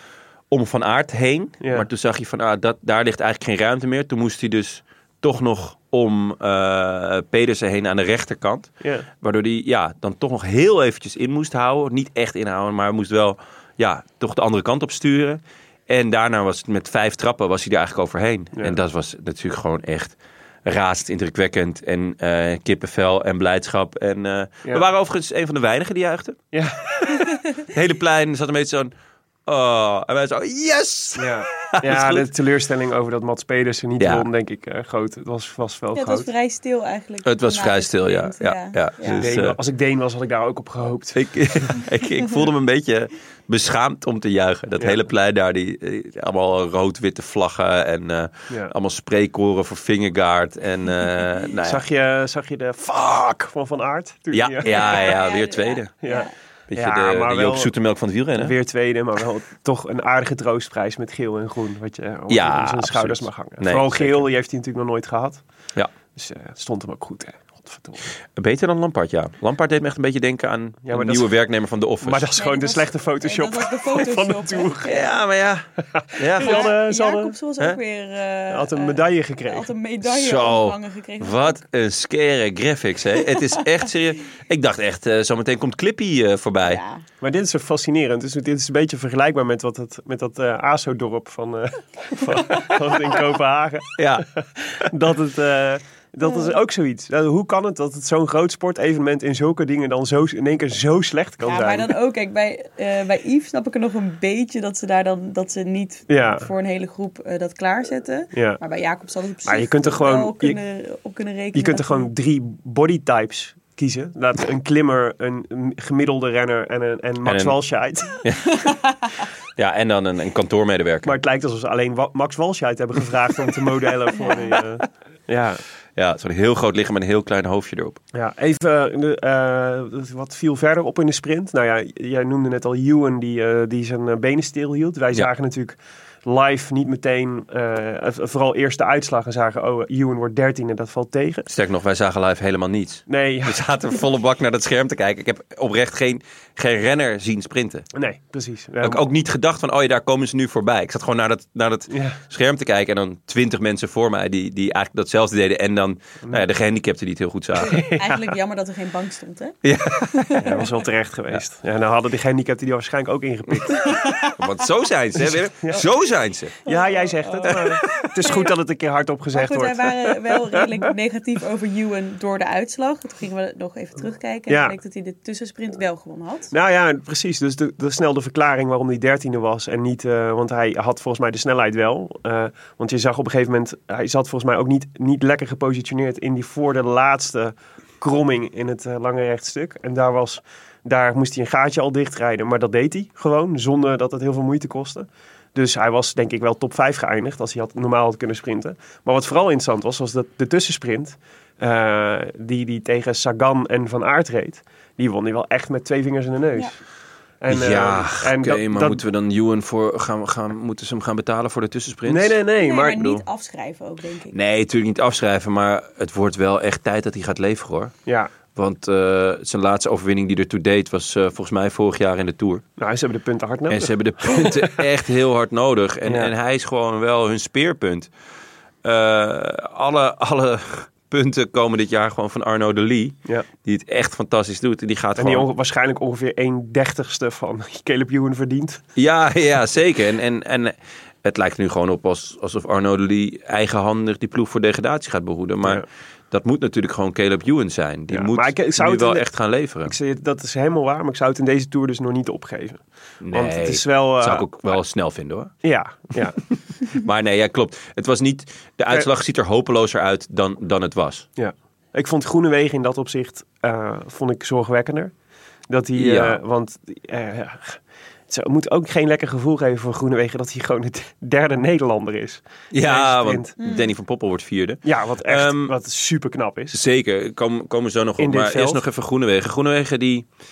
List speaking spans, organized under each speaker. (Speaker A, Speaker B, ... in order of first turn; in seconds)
Speaker A: 0.5-26.4, 26.9-28.9, 29.4-32.2, 34.0-34.2, 37.2-39.6, 41.1-51.8, 54.3-56.0, 56.7-58.5, 62.3-64.2, 68.3-72.3, 74.8-75.6, 76.2-76.7, 80.0-86.8, 94.0-94.2, 117.2-117.6, 118.2-118.7, 119.6-121.1, 126.0-128.0, 141.5-147.9, 148.8-157.8, 159.6-160.7, 164.3-166.6, 167.5-168.1, 207.5-212.4, 213.0-213.2, 214.3-217.9, 218.5-222.6, 223.7-228.1, 228.8-235.4, 238.9-249.9, 253.2-255.5, 256.9-261.3, 265.9-266.4, 272.7-275.7, 276.7-280.2
Speaker B: 1.6-1.9, 26.5-26.8, 31.1-36.3, 39.1-41.3, 51.6-55.1, 56.0-57.7, 58.4-65.4, 66.1-68.0, 70.8-71.3, 72.0-75.0, 75.8-77.3, 78.5-79.7, 87.2-101.9, 106.1-106.5, 108.3-108.6, 109.4-110.6, 111.5-118.2, 121.0-125.6, 128.1-141.5, 143.1-143.6, 147.9-149.0, 151.9-152.2, 157.6-158.2, 160.4-163.9, 165.2-165.8, 166.6-170.8, 174.5-174.8, 176.5-206.7, 207.4-209.0, 212.1-213.0, 218.1-218.3, 222.8-224.8, 226.0-226.3, 235.2-238.8, 248.1-249.3, 249.8-254.5, 255.6-256.4, 261.4-265.1, 265.7-273.5, 274.8-276.8, 278.2-278.8
Speaker C: 35.9-39.2, 54.6-56.3, 72.4-75.2, 76.4-81.6, 86.6-87.0, 96.2-96.5, 101.4-112.1, 124.1-124.6, 157.8-160.5, 163.7-164.4, 166.7-168.5, 169.3-176.5, 212.6-214.3, 273.6-273.9